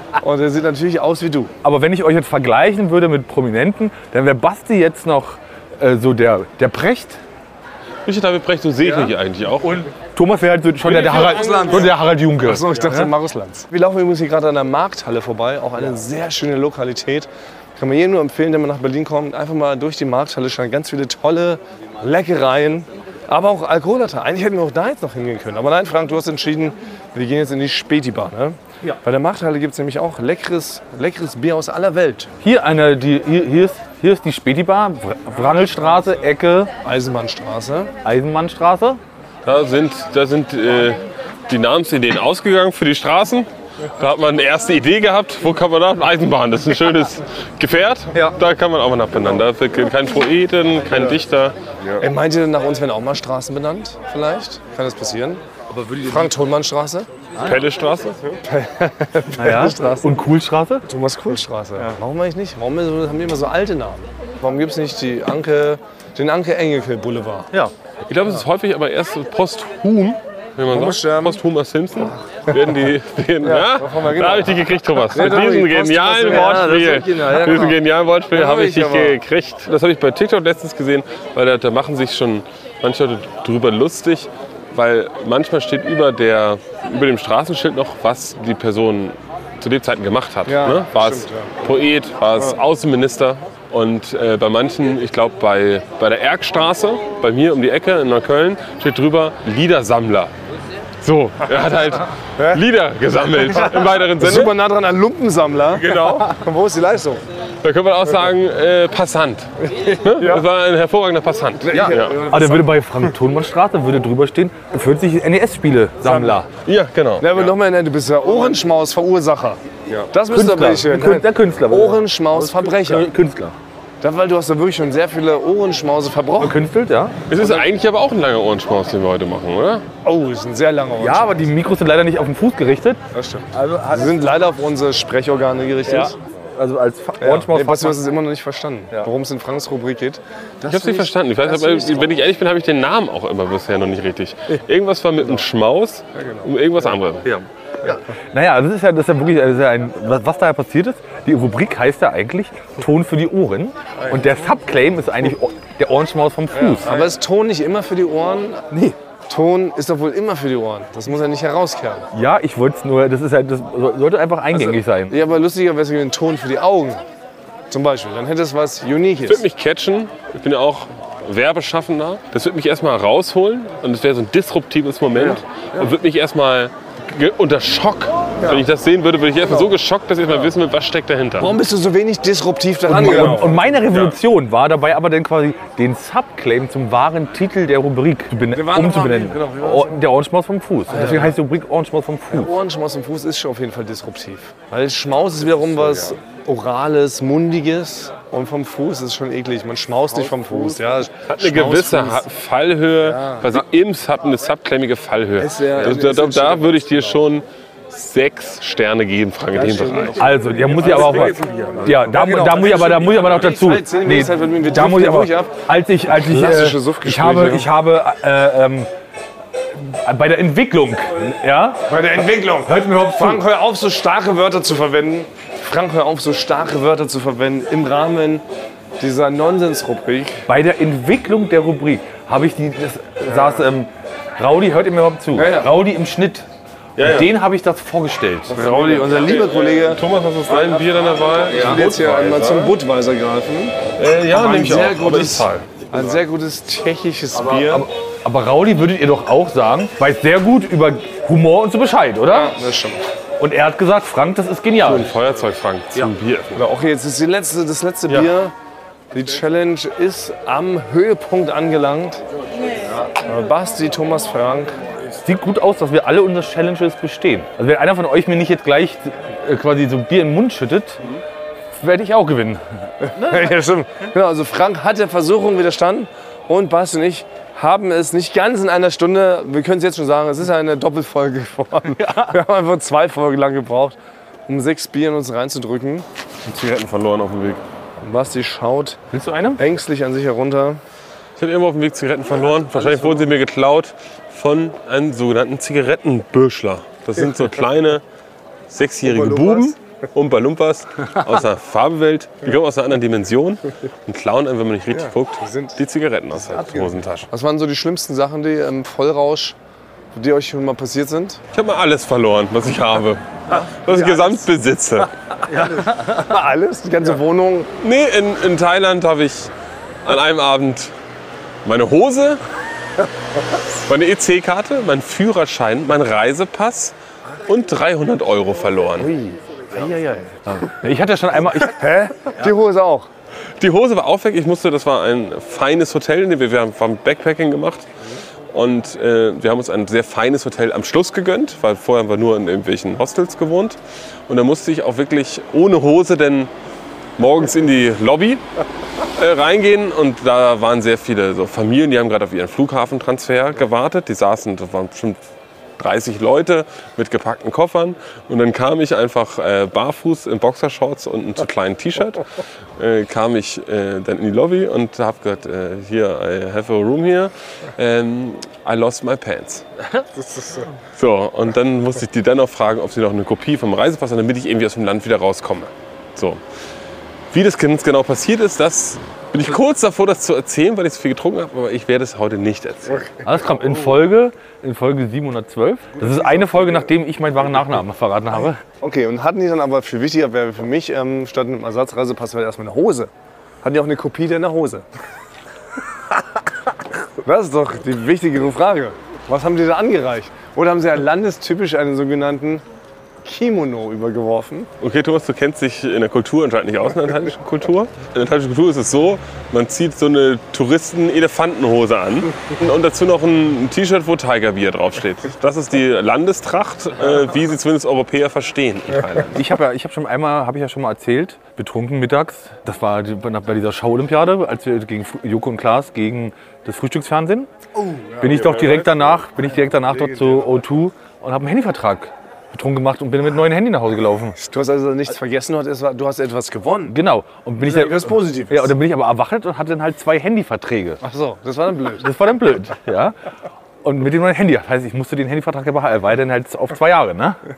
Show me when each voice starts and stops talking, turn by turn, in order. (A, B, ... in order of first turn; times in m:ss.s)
0:00.2-0:01.5 A
0:01.6-0:07.2 B
0:08.0-0:09.8 C
0:09.6-0:13.1 B
0:10.9-0:32.3 A
0:32.4-0:36.7 B
0:36.8-0:37.9 A
0:38.0-0:39.0 B
0:39.4-0:52.0 C
0:52.0-0:55.4 A
0:55.7-0:56.2 B
0:56.0-0:57.1 A
0:57.4-0:58.3 C
0:58.4-1:00.2 A
0:59.4-1:00.8 B
1:00.9-1:07.5 A
1:08.1-1:40.3 C
1:10.7-1:11.4 A
1:13.4-1:17.8 A
1:18.3-1:19.2 A
1:30.4-1:31.5 A
1:41.0-1:44.6 C
1:44.2-1:47.2 A
1:45.8-1:46.3 C
1:47.6-1:52.2 C
1:49.7-1:50.4 A
1:51.6-1:52.8 A
1:51.7-1:56.5 B
1:56.0-1:56.4 A
1:56.6-1:57.4 C
1:57.2-2:03.1 A
2:00.3-2:03.5 B
2:04.0-2:06.6 A
2:06.4-2:07.2 B
2:07.3-2:09.8 C
2:10.0-2:11.4 A
2:11.0-2:13.0 B
2:13.1-2:16.1 A
2:13.5-2:14.3 B
2:15.9-2:18.0 B
2:17.2-2:22.2 A
2:20.6-2:27.4 C
2:26.2-2:26.5 A
2:27.2-2:37.0 B
2:36.5-2:38.7 A
2:38.7-2:39.0 B
2:39.3-2:42.1 A
2:42.1-2:45.2 B
2:44.5-2:47.0 A
2:47.7-2:49.4 A
2:49.2-3:01.5 C
2:55.2-2:55.9 A
3:01.4-3:03.7 A
3:02.9-3:12.5 B
3:03.0-3:04.2 C
3:08.5-3:10.0 A
3:10.9-3:11.4 A
3:12.3-3:22.2 A
3:21.3-3:30.2 C
3:23.0-3:23.5 A
3:25.4-3:27.0 A
3:29.6-3:35.6 A
3:30.1-3:38.9 B
3:30.8-3:31.7 C
3:36.1-3:37.7 A
3:39.7-3:41.8 B
3:41.9-3:48.4 A
3:42.6-3:43.4 B
3:49.0-3:50.4 A
3:50.5-3:56.5 B
3:55.3-3:55.7 A
3:57.0-3:57.3 C
3:57.0-3:58.6 B
3:58.5-4:00.0 A
3:59.0-4:02.7 C
4:01.5-4:03.8 A
4:04.0-4:05.8 C
4:04.3-4:07.9 A
4:07.5-4:12.5 B
4:12.3-4:13.0 A
4:13.4-4:15.1 B
4:14.8-4:16.6 C
4:16.6-4:18.5 A
4:19.1-4:22.2 A
4:23.2-4:24.8 A
4:25.2-4:31.0 B
4:31.7-4:32.6 B
4:33.0-4:46.0 A
4:42.0-4:42.3 B
4:46.4-4:47.6 C
4:48.0-4:49.0 A
4:49.1-4:49.6 B
4:49.6-4:50.8 A
4:51.4-4:58.0 C
4:58.7-5:07.3 C
4:59.1-4:59.6 A
5:04.9-5:05.8 A
5:06.6-5:09.6 A
5:10.1-5:11.4 A
5:11.5-5:15.1 C
5:13.9-5:14.4 A
5:15.6-5:17.7 A
5:15.6-5:16.0 B
5:17.8-5:19.5 C
5:20.0-5:20.9 C
5:21.6-5:22.4 C
5:23.7-5:26.9 C
5:27.5-5:29.1 C
5:29.0-5:30.4 A
5:30.5-5:31.8 B
5:31.6-5:33.1 A
5:33.6-5:37.9 C
5:38.5-5:46.5 C
5:47.2-5:48.4 C
5:49.1-5:55.2 C
5:55.8-6:02.2 C
6:02.8-6:09.6 C
6:10.1-6:10.7 A
6:10.9-6:16.4 C
6:17.3-6:23.1 C
6:23.2-6:28.6 B
6:26.0-6:26.8 A
6:28.8-6:33.1 A
6:33.6-6:34.8 A
6:37.2-6:42.6 A
6:43.2-6:44.7 A
6:44.8-6:59.4 C
6:59.3-7:07.5 B
7:07.8-7:08.3 A
7:08.2-7:14.4 B
7:08.2-7:09.2 C
7:10.0-7:10.4 A
7:14.4-7:16.9 A
7:16.9-7:21.0 B
7:17.6-7:18.7 A
7:21.0-7:22.0 A
7:22.0-7:23.2 B
7:23.8-7:27.4 B